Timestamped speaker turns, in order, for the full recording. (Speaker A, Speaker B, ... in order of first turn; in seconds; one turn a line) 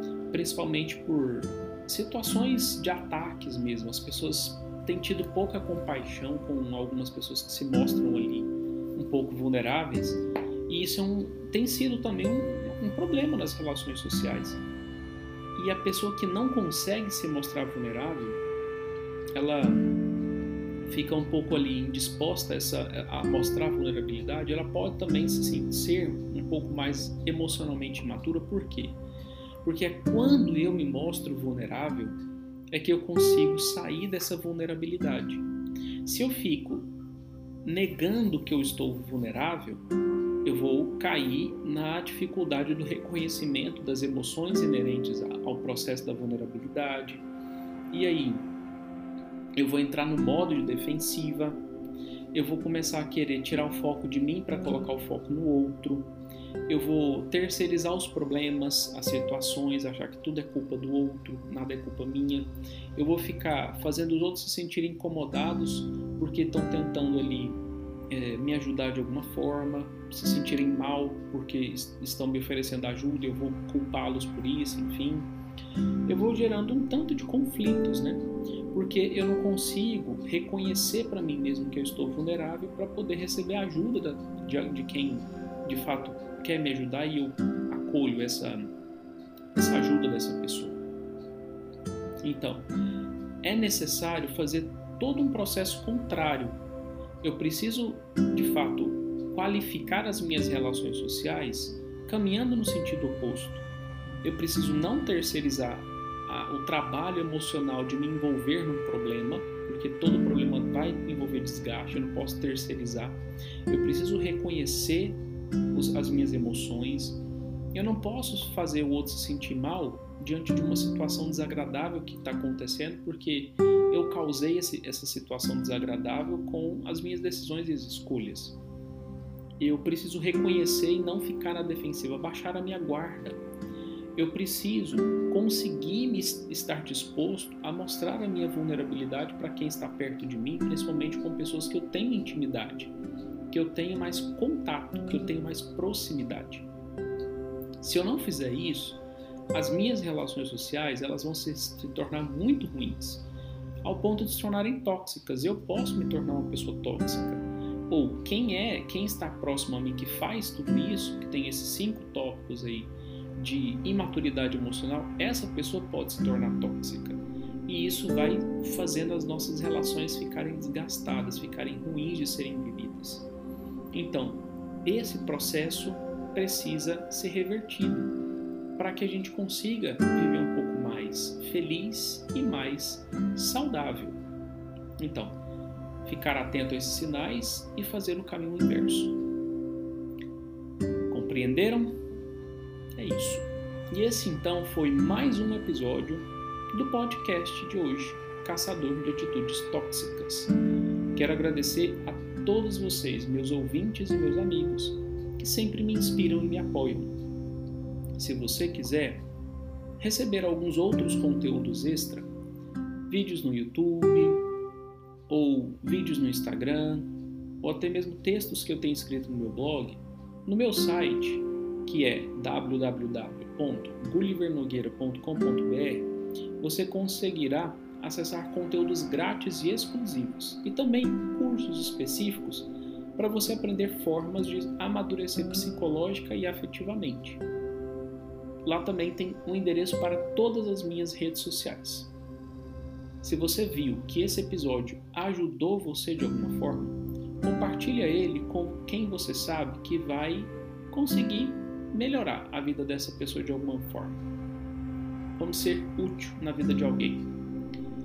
Speaker A: 0.3-14.6
Speaker A: 15.6-18.4
Speaker A: 19.3-19.8
Speaker A: 20.9-29.0
Speaker A: 29.6-32.1
Speaker A: 32.7-35.4
Speaker A: 36.0-36.9
Speaker A: 37.6-39.8
Speaker A: 40.4-47.2
Speaker A: 47.9-48.5
Speaker A: 49.6-51.6
Speaker A: 52.3-56.1
Speaker A: 56.7-67.6
Speaker A: 68.1-75.3
Speaker A: 76.0-88.7
Speaker A: 89.5-90.8
Speaker A: 92.2-92.7
Speaker A: 93.4-96.6
Speaker A: 97.2-103.6
Speaker A: 104.2-128.6
Speaker A: 129.6-133.4
Speaker A: 134.2-142.9
Speaker A: 143.5-146.7
Speaker A: 147.8-149.0
Speaker A: 149.5-153.3
Speaker A: 153.8-173.3
Speaker A: 173.9-178.2
Speaker A: 178.8-184.2
Speaker A: 185.0-185.4
Speaker A: 186.0-189.2
Speaker A: 191.1-192.0
Speaker A: 192.9-200.6
Speaker A: 201.1-207.1
Speaker A: 208.2-209.2
Speaker A: 210.0-212.3
Speaker A: 213.1-214.4
Speaker A: 215.3-217.1
Speaker A: 217.6-237.4
Speaker A: 238.6-242.1
Speaker A: 243.2-254.2
Speaker A: 255.4-257.3